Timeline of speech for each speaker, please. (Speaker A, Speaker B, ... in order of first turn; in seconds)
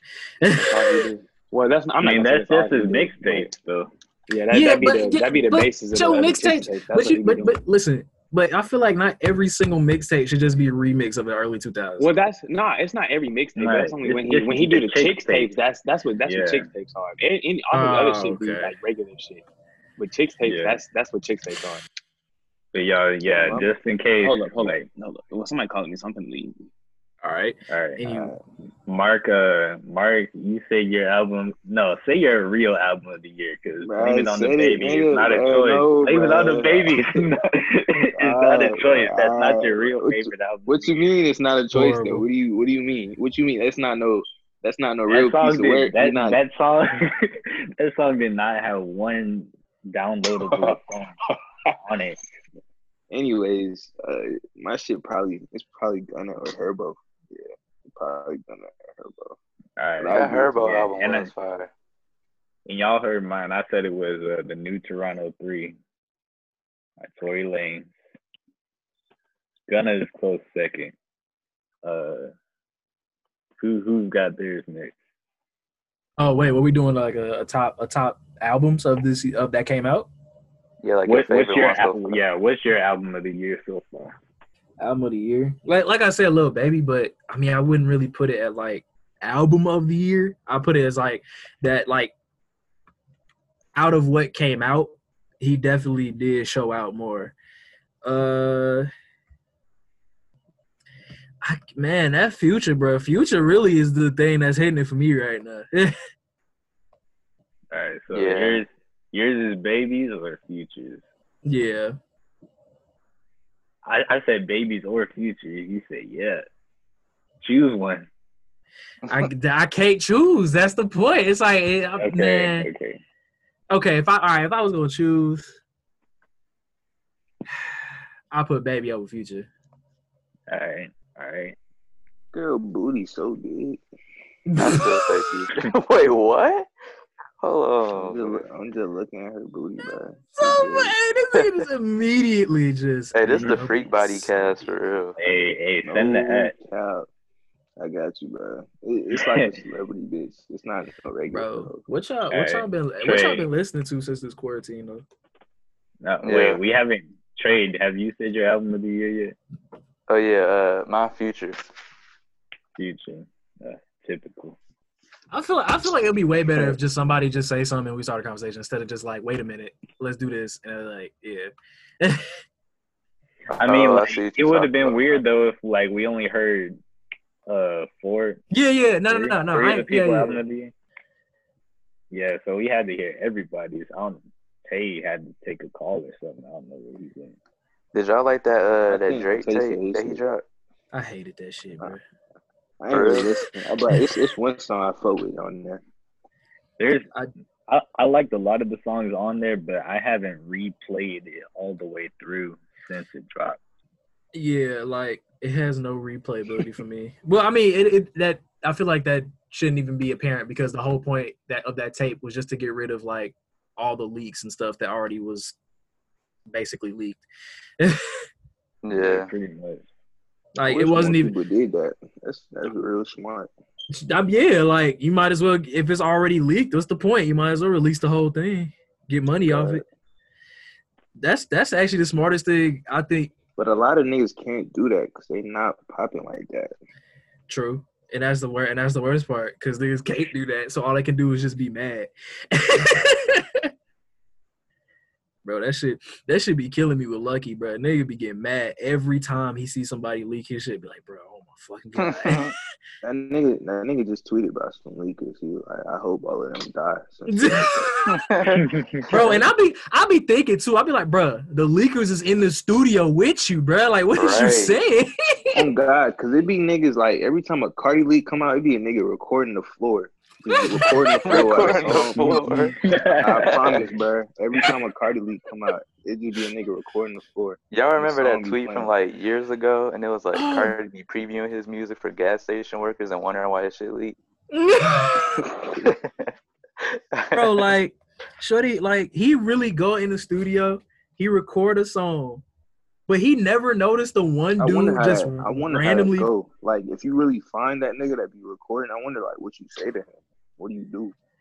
Speaker A: 0.4-1.1, 4.5-12.1, 17.7-18.7, 27.2-28.4, 41.7-42.2, 76.2-80.1, 84.8-92.1, 93.7-97.3, 98.0-98.9, 101.4-105.9, 111.4-111.9, 119.1-122.7, 123.7-125.6, 128.3-129.5, 134.5-135.2, 140.4-144.3, 151.3-155.0, 165.3-172.3, 178.5-180.4, 190.9-192.0, 204.3-215.6, 216.5-217.2, 217.8-218.2, 220.6-221.3, 223.9-229.8, 231.2-233.3, 237.5-243.7, 245.4-252.5, 257.3-258.3, 259.1-265.6, 270.6-271.4, 272.1-272.7, 280.3-280.7, 284.5-285.5, 287.3-292.4, 293.1-296.3
Speaker B: 0.6-3.5, 4.3-7.6, 12.0-19.4, 20.0-21.8, 24.2-26.5
Speaker C: 2.0-3.9, 13.6-15.5, 16.2-16.7, 20.4-20.8, 22.7-24.9, 27.7-28.0, 28.9-41.1, 45.1-51.2, 51.8-52.2, 59.8-61.3, 62.6-65.8, 67.0-67.9, 69.7-70.9, 71.8-72.3, 73.6-74.9, 81.0-84.1, 107.7-111.0, 113.8-116.5, 117.4-118.1, 122.0-123.0, 130.5-131.6, 145.2-146.5, 149.1-149.5, 152.3-153.5, 156.0-159.3, 162.8-164.6, 173.6-176.8, 177.5-178.4, 179.1-180.7, 182.1-187.4, 196.8-197.1, 197.7-203.6, 218.9-219.9, 258.6-259.1, 272.8-273.8
Speaker D: 23.2-23.7, 28.0-28.4, 33.8-37.2, 38.2-46.4, 50.4-50.8, 53.1-59.4, 60.0-60.8, 132.3-133.8, 137.9-141.0, 145.8-147.1, 147.8-151.8, 188.9-190.2, 192.8-195.8, 220.7-223.5, 229.4-229.8, 233.6-236.7, 253.0-257.9, 265.6-278.9, 294.6-301.1
Speaker E: 60.1-61.7, 80.8-82.2, 108.1-108.6, 134.6-136.7, 137.4-138.4, 143.1-145.2, 156.2-156.6, 160.1-161.6, 173.6-175.2, 187.9-190.4, 192.9-193.4, 218.8-219.3, 252.0-252.5, 258.1-259.4, 264.1-264.8, 270.8-272.7, 273.4-273.8, 277.7-284.1, 285.4-287.7